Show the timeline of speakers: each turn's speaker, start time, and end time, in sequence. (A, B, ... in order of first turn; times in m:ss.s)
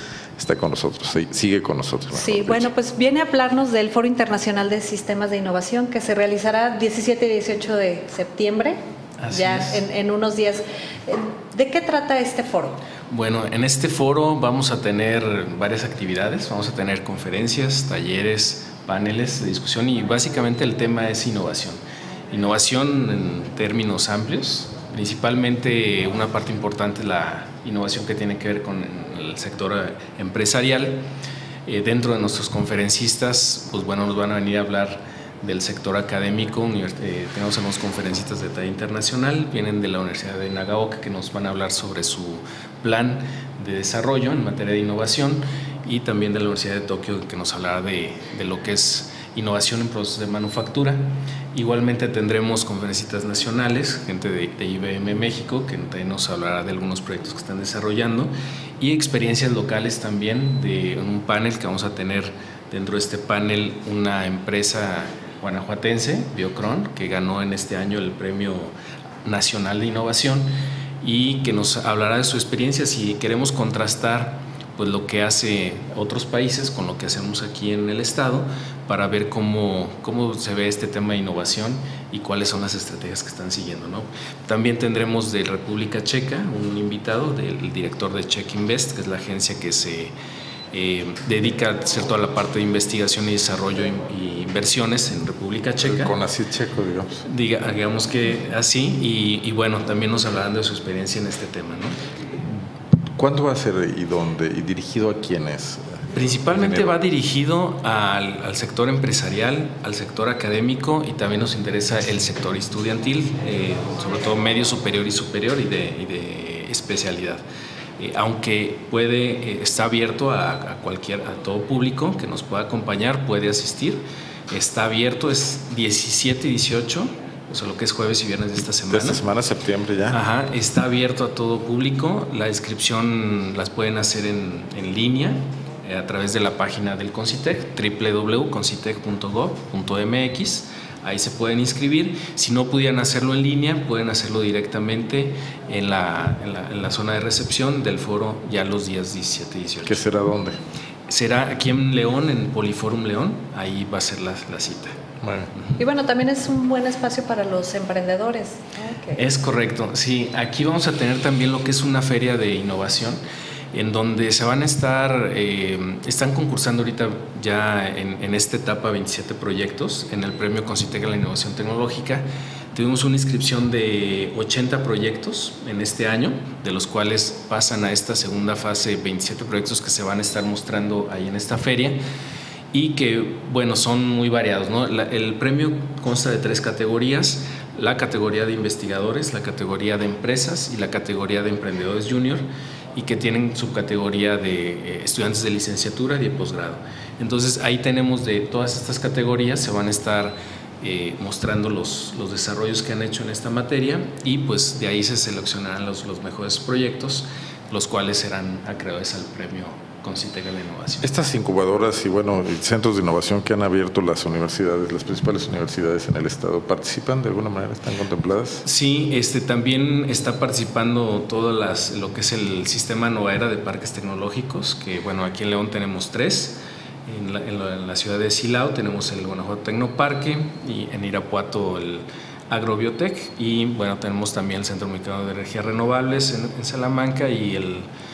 0:00.4-0:02.7 A
0:02.1-0:08.8 B
0:09.2-0:09.8 C
0:09.3-0:12.8 B
0:13.1-0:21.8 C
0:22.3-0:31.0 C
0:31.6-1:08.7 C
1:09.2-1:10.5 C
1:11.0-1:30.1 C
1:30.7-1:36.2 C
1:35.8-1:37.2 A
1:37.2-1:42.0 C
1:43.2-1:46.9 A
1:46.1-1:57.4 C
1:58.0-2:09.2 C
2:08.9-2:10.2 A
2:10.1-2:30.0 C
2:29.8-2:30.6 A
2:31.1-2:35.0 C
2:35.2-2:35.5 A
2:35.5-2:35.8 C
2:35.8-2:39.2 B
2:39.1-2:43.2 C
2:43.7-3:02.0 C
3:02.7-3:12.4 C
3:12.9-3:31.1 C
3:31.0-3:38.6 A
3:38.6-3:57.9 C